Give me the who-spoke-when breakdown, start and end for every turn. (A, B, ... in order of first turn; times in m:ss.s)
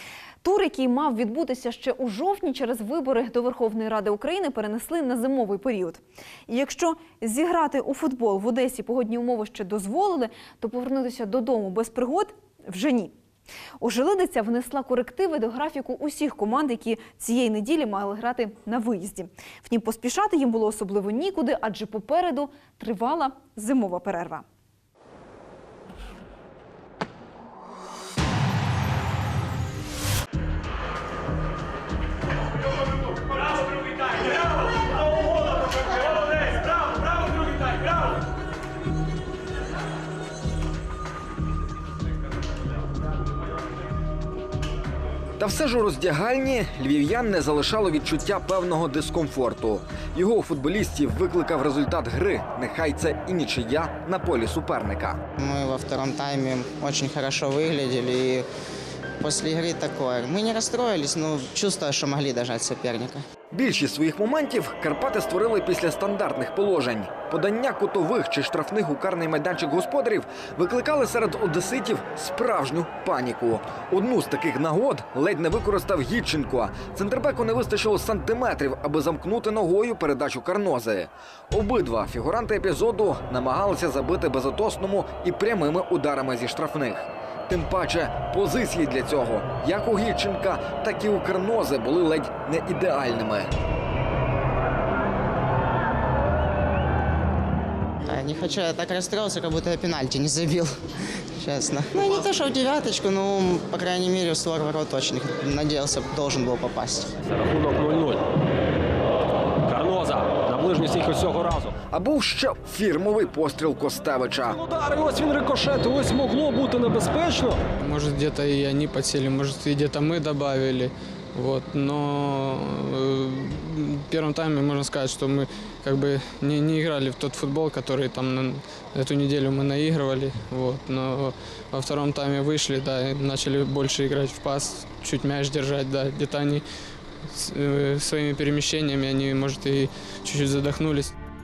0:00.4-0:13.1 A
0:13.8-0:24.4 A
0:45.4-0:55.2 B
0:55.4-0:58.5 C
0:59.2-1:03.2 C
1:03.5-1:33.5 B
1:38.0-1:47.1 C
1:47.3-1:48.2 D
1:49.7-1:51.7 D
1:51.9-1:54.6 B
1:54.5-1:57.6 D
1:57.8-2:16.6 E
2:17.3-2:21.1 E